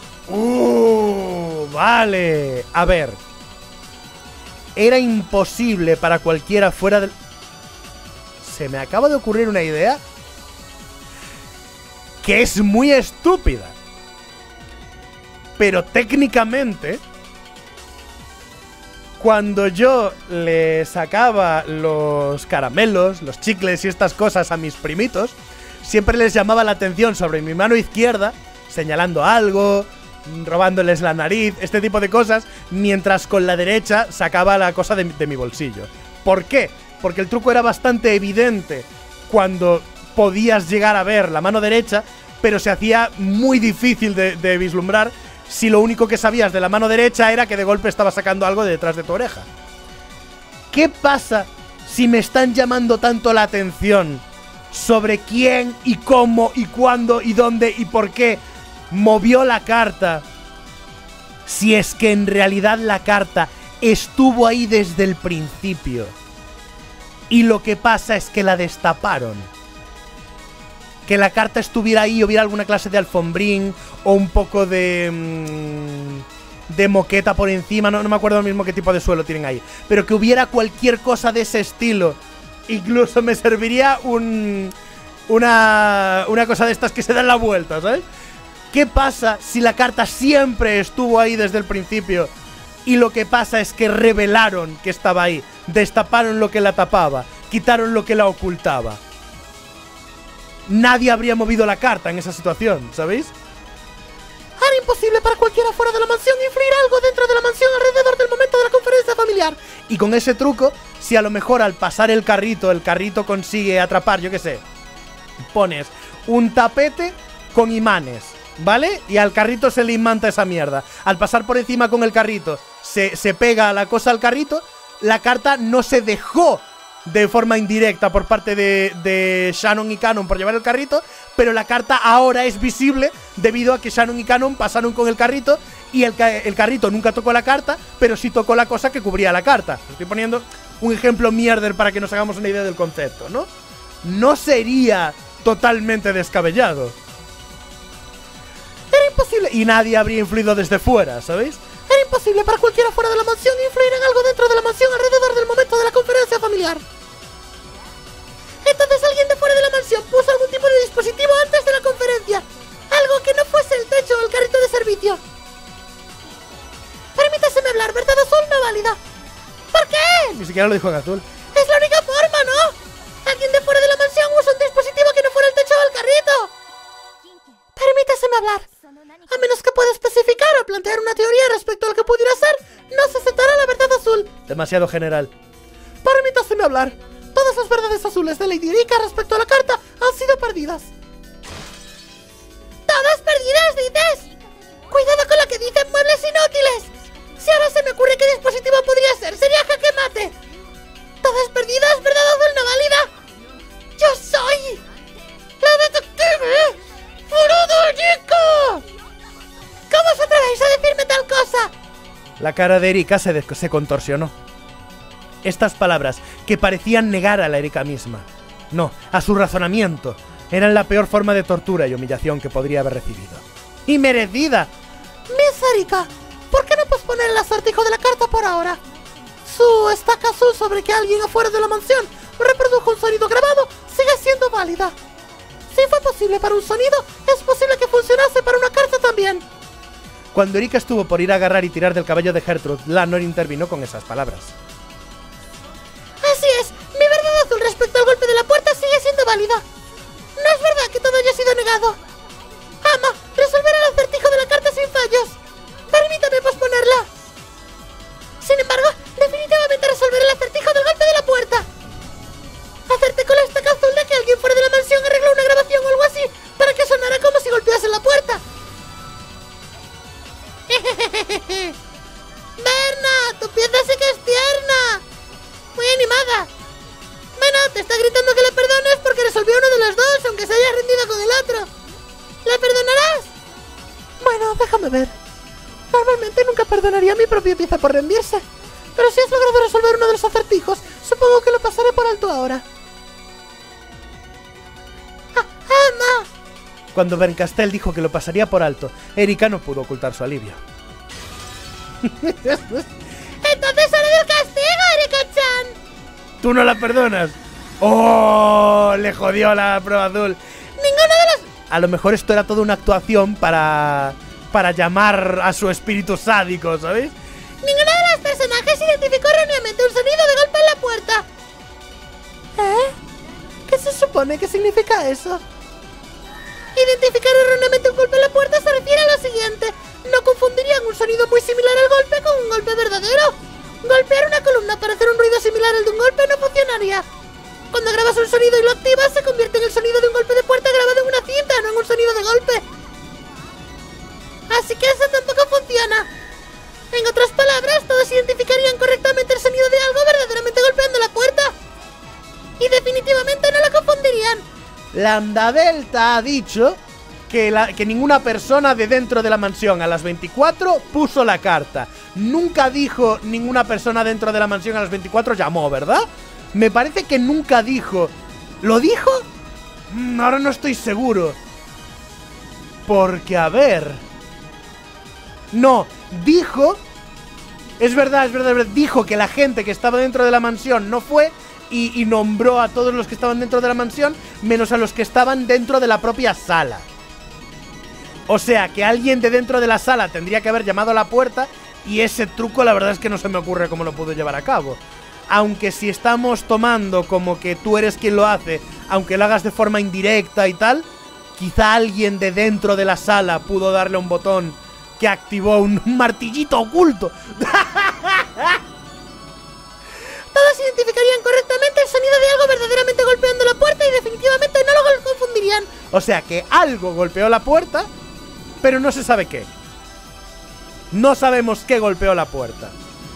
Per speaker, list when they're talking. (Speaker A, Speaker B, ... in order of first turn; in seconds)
Speaker A: 0.3-3.2, 4.8-7.2, 8.4-10.0, 12.2-13.8, 15.6-17.0, 19.2-49.5, 50.7-60.2, 61.5-66.1, 67.3-69.5, 71.1-84.7, 85.3-88.0, 88.7-92.3, 92.8-99.0, 100.7-103.3, 109.9-114.6, 115.5-143.5, 144.0-147.0, 149.4-151.6, 170.3-171.2, 184.4-185.3, 212.4-214.3, 215.4-224.7, 240.3-244.5, 296.9-300.6, 302.0-302.9, 306.4-310.4, 311.7-317.1, 354.9-369.3, 369.9-371.4, 372.9-374.0, 375.5-376.8, 377.8-386.9, 388.3-400.9, 401.4-408.6, 415.9-417.9, 418.6-419.5, 420.9-422.7
Speaker B: 104.6-109.6, 148.9-149.4, 151.9-156.8, 158.6-165.2, 167.2-169.0, 169.7-170.3, 171.5-176.5, 177.8-178.7, 179.3-184.3, 186.0-190.9, 192.9-194.3, 194.9-200.3, 201.2-203.1, 204.0-204.8, 205.6-206.8, 207.3-208.8, 209.9-211.7, 225.3-228.8, 229.4-234.9, 235.7-239.4, 246.2-249.6, 250.4-252.0, 252.8-255.4, 255.9-257.1, 258.4-261.7, 262.9-268.4, 270.7-271.7, 272.6-275.0, 275.7-276.5, 277.4-281.7, 282.4-283.3, 284.2-285.1, 285.9-288.4, 288.9-292.6, 295.3-296.3, 303.4-305.8, 310.8-311.5, 317.6-321.2, 322.6-323.0, 323.7-325.4, 326.7-337.1, 337.7-342.6, 344.5-346.1, 346.9-351.5, 352.6-354.4, 410.3-415.7